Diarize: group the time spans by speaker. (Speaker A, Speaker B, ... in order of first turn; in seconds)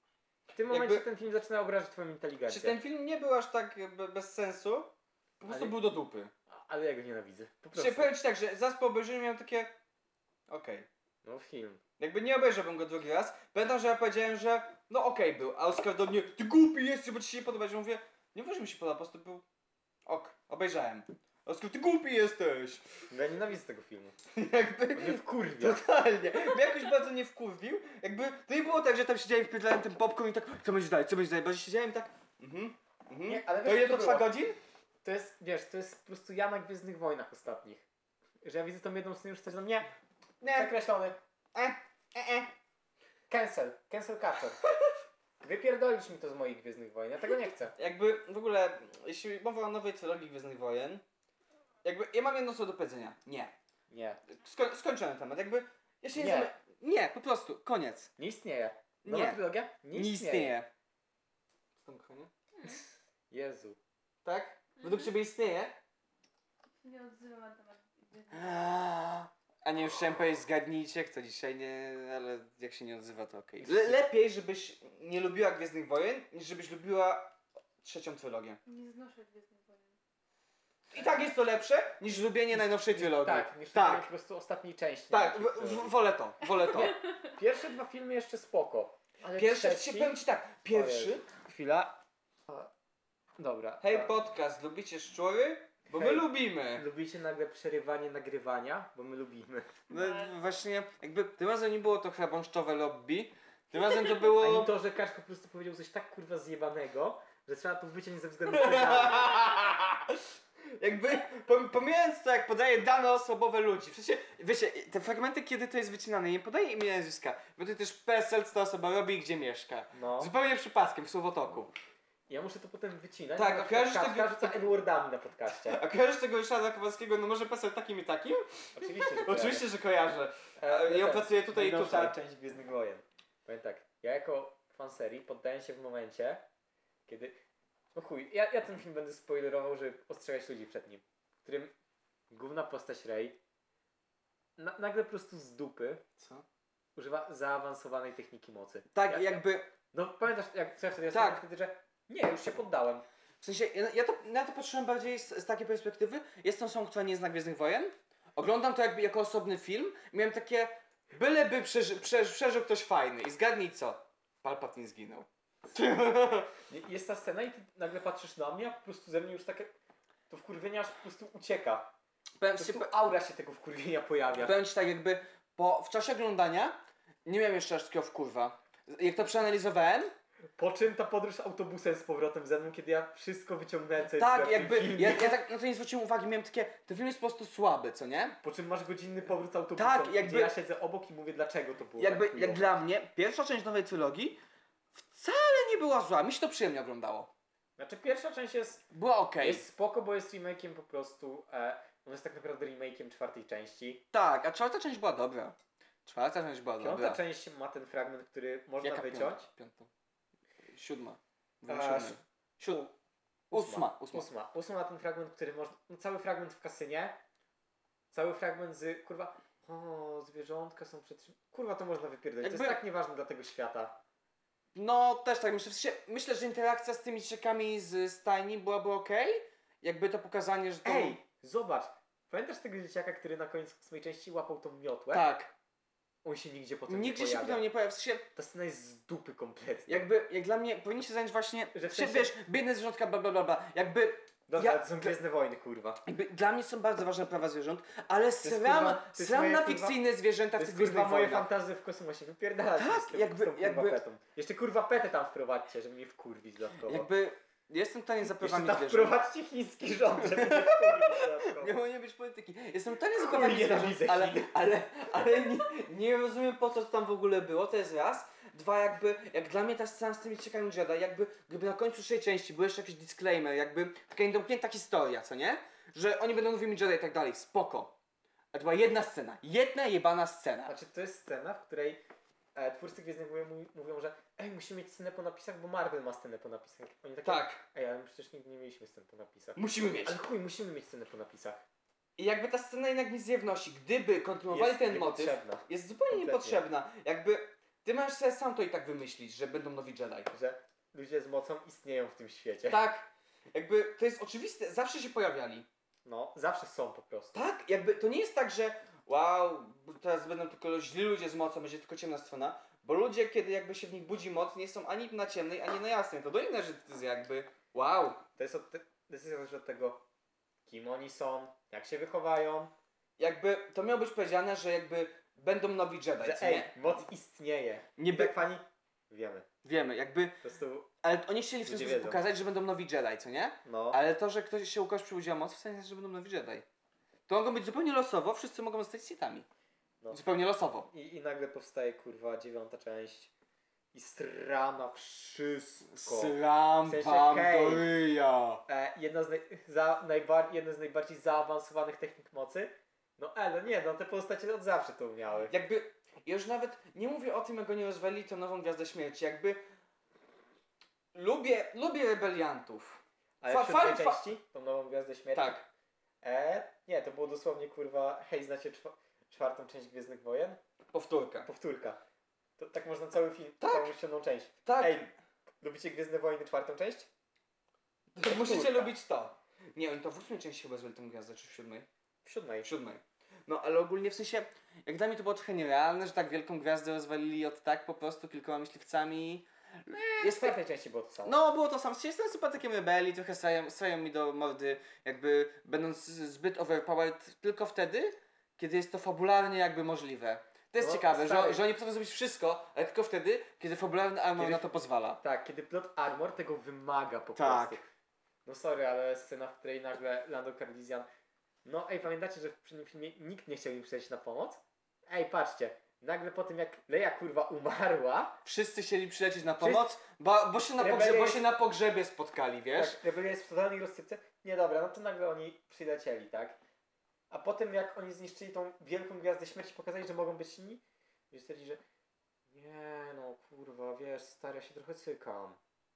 Speaker A: 0.5-2.8, 5.5-5.8, 6.5-8.2, 11.2-11.8, 23.1-24.1, 24.9-25.8, 33.2-34.3, 35.0-37.8, 38.4-39.9, 40.5-41.2, 43.3-44.6, 45.4-47.7, 53.9-54.2, 56.1-56.5, 58.2-60.6, 63.3-63.8, 73.6-74.0, 82.5-85.9, 87.3-90.2, 90.7-92.7, 93.4-94.1, 95.9-99.7, 104.4-109.5, 119.9-120.3, 122.3-125.8, 128.8-129.7, 130.6-136.4, 137.1-137.4, 137.9-141.7, 142.3-143.4, 144.6-146.0, 146.9-153.1, 166.7-169.7, 170.3-171.9, 172.6-174.6, 180.6-185.4, 188.4-192.7, 197.8-198.9, 199.4-204.1, 206.8-209.5, 211.7-212.9, 213.5-217.2, 218.1-224.0, 230.8-235.3, 236.2-237.7, 238.3-240.1, 241.7-242.3, 244.5-246.0, 248.4-250.0, 250.6-257.1, 258.2-261.8, 263.1-264.6, 280.6-282.0, 282.6-291.6, 294.5-296.6, 300.3-302.8, 306.0-307.4, 318.4-320.0, 320.6-322.7, 326.2-329.5, 330.4-330.9, 331.6-332.2, 333.6-334.0, 340.9-343.3, 343.9-347.9, 348.7-355.5, 363.4-365.6, 366.2-370.6, 371.4-372.0, 372.6-375.1, 375.6-377.1, 378.2-378.9, 382.2-382.7, 390.2-391.4, 400.8-401.6, 404.4-407.9, 408.4-411.1, 411.6-418.4, 419.6-419.9, 420.8-421.4, 422.7-426.6, 427.3-431.8, 432.5-435.6
Speaker B: 0.7-1.1, 2.5-6.3, 7.7-9.8, 10.5-10.9, 12.0-19.4, 20.1-22.8, 24.3-34.6, 40.4-40.7, 41.5-42.5, 47.8-51.0, 51.8-53.5, 54.3-58.1, 59.0-59.4, 59.9-60.7, 61.8-62.3, 64.2-65.8, 68.3-78.6, 80.9-84.1, 85.1-87.0, 89.3-91.2, 93.8-96.8, 99.9-104.7, 108.5-121.7, 123.3-124.7, 125.5-132.2, 146.2-146.4, 148.9-149.7, 151.1-151.4, 153.4-166.5, 172.4-172.9, 174.3-180.1, 184.1-188.4, 189.8-190.5, 192.0-194.4, 194.9-197.3, 198.9-199.6, 204.1-207.2, 208.8-209.9, 210.7-212.8, 213.5-214.3, 222.4-222.8, 224.7-231.2, 235.1-235.5, 236.9-238.2, 239.9-245.1, 246.0-251.5, 252.8-254.0, 256.8-259.2, 260.2-277.9, 278.5-280.7, 287.2-287.6, 289.6-290.2, 292.2-300.3, 302.7-305.7, 307.3-318.2, 323.2-326.8, 328.0-328.4, 329.6-330.4, 331.0-336.6, 337.3-339.4, 340.1-340.9, 345.9-348.6, 355.5-359.6, 361.1-364.3, 365.3-365.6, 370.9-371.5, 373.6-373.9, 374.6-375.1, 378.1-381.9, 382.6-390.6, 391.2-405.2, 407.4-407.8, 418.4-423.0
Speaker C: 64.8-65.1, 66.8-68.5, 78.7-80.0